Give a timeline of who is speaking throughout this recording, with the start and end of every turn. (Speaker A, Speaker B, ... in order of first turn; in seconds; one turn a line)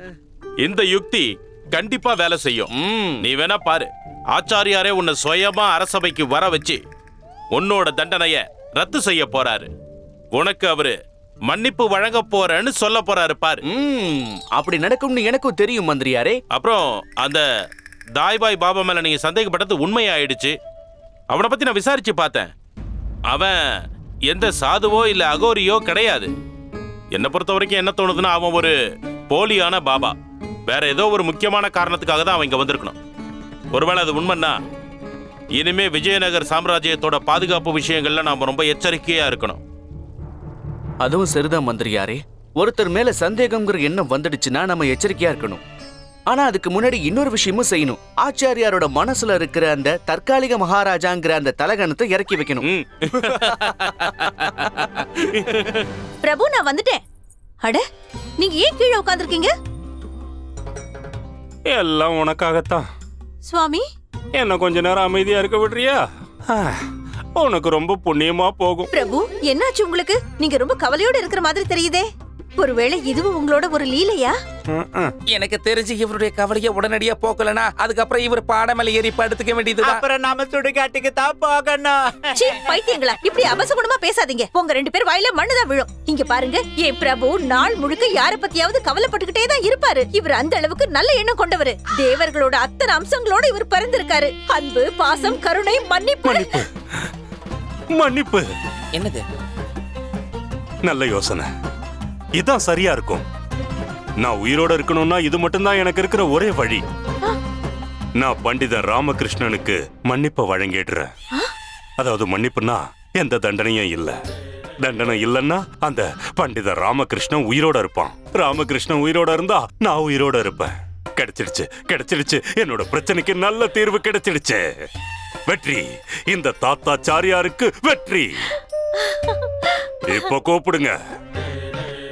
Speaker A: 0.6-2.7
Speaker B: 2.7-3.2
Speaker A: 3.2-6.8
Speaker A: 7.5-9.7
Speaker A: 10.3-10.9
Speaker A: 11.5-13.6
Speaker B: 13.7-16.4
Speaker A: 16.5-17.4
Speaker A: 18.2-20.5
Speaker A: 21.3-22.5
Speaker A: 23.3-23.6
Speaker A: 24.3-26.3
Speaker A: 27.1-28.7
Speaker A: 29.3-30.1
Speaker A: 30.7-33.0
Speaker A: 33.7-34.5
Speaker A: 35.6-39.6
Speaker B: 41.0-45.6
Speaker B: 46.3-52.6
Speaker A: 52.6-55.8
Speaker C: 56.2-57.0
Speaker C: 58.4-59.5
Speaker D: 61.7-62.8
Speaker C: 63.4-63.8
Speaker D: 64.4-66.8
Speaker D: 67.4-68.9
Speaker C: 68.9-74.4
Speaker D: 74.7-75.1
Speaker E: 75.3-80.0
Speaker F: 79.8-83.0
Speaker C: 82.4-96.6
Speaker D: 96.2-96.7
Speaker D: 98.0-98.4
Speaker E: 98.9-99.2
Speaker D: 100.8-101.5
Speaker D: 102.4-103.2
Speaker D: 104.2-106.8
Speaker D: 108.2-111.1
Speaker D: 112.0-114.2
Speaker D: 114.8-124.6
Speaker D: 125.5-128.5
Speaker D: 130.1-130.9